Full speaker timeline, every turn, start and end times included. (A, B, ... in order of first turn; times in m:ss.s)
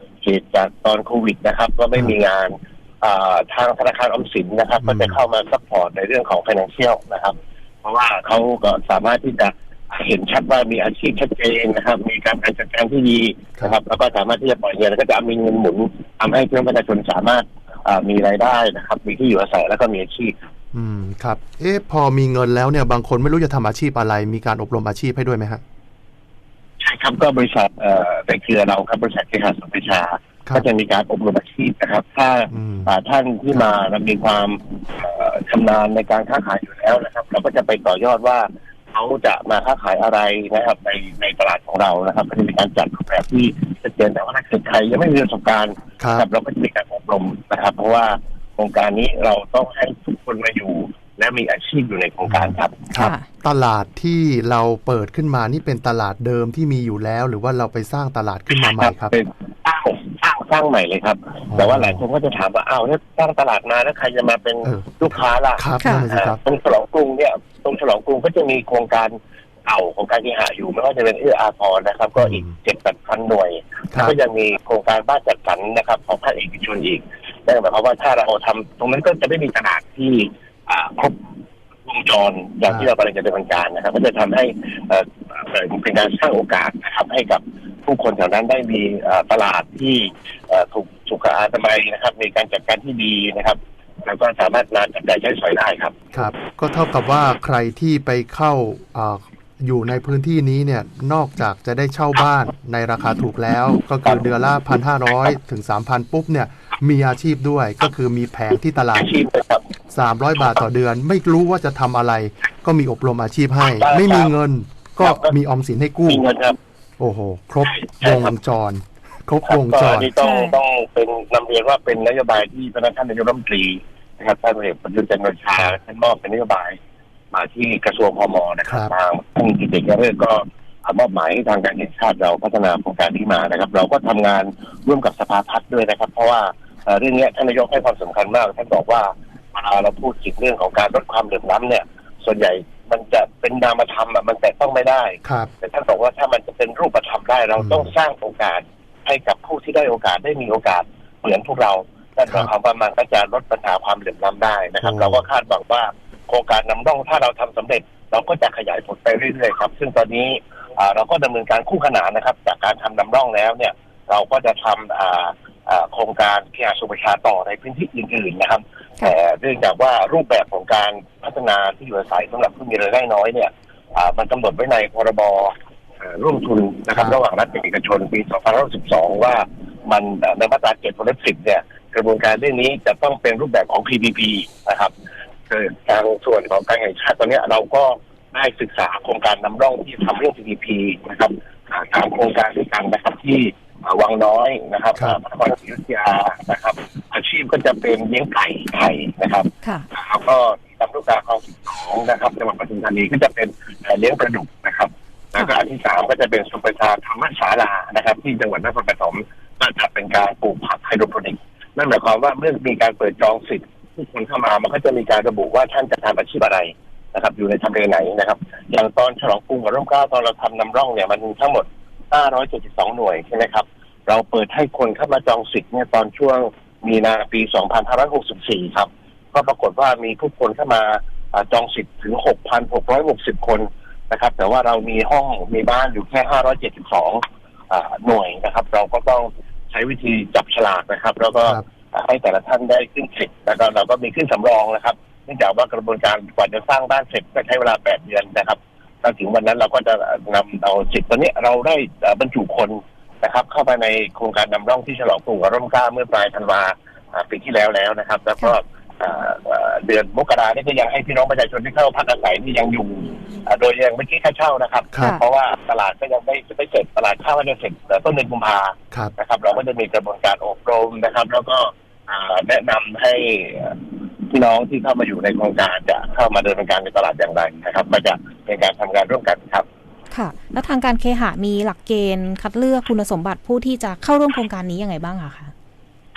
0:00.2-0:20.4 A
0:04.8-0:05.2 B
0:20.7-0:25.6 B
0:26.8-0:52.9 A
0:32.5-0:32.9 B
0:46.0-0:46.2 B
0:52.2-0:59.2 B
0:52.9-0:53.2 C
0:58.5-1:21.3 A
1:01.5-1:02.0 B
1:04.6-1:06.4 B
1:05.8-1:06.1 C
1:12.2-1:12.6 B
1:21.8-1:36.0 A
1:36.1-1:49.1 B
1:48.9-1:49.7 A
1:49.9-1:56.2 B
1:53.6-1:54.3 A
1:55.0-1:55.3 A
1:56.1-1:56.6 A
1:57.0-2:00.1 B
1:57.6-1:58.3 A
1:59.5-2:06.8 A
2:00.2-2:00.6 C
2:07.3-3:04.9 A
2:08.6-2:08.9 B
2:25.2-2:25.5 B
2:27.6-2:27.9 B
2:34.8-2:35.2 B
3:05.5-4:39.6 A
4:24.9-4:25.2 B
4:40.1-4:45.5 C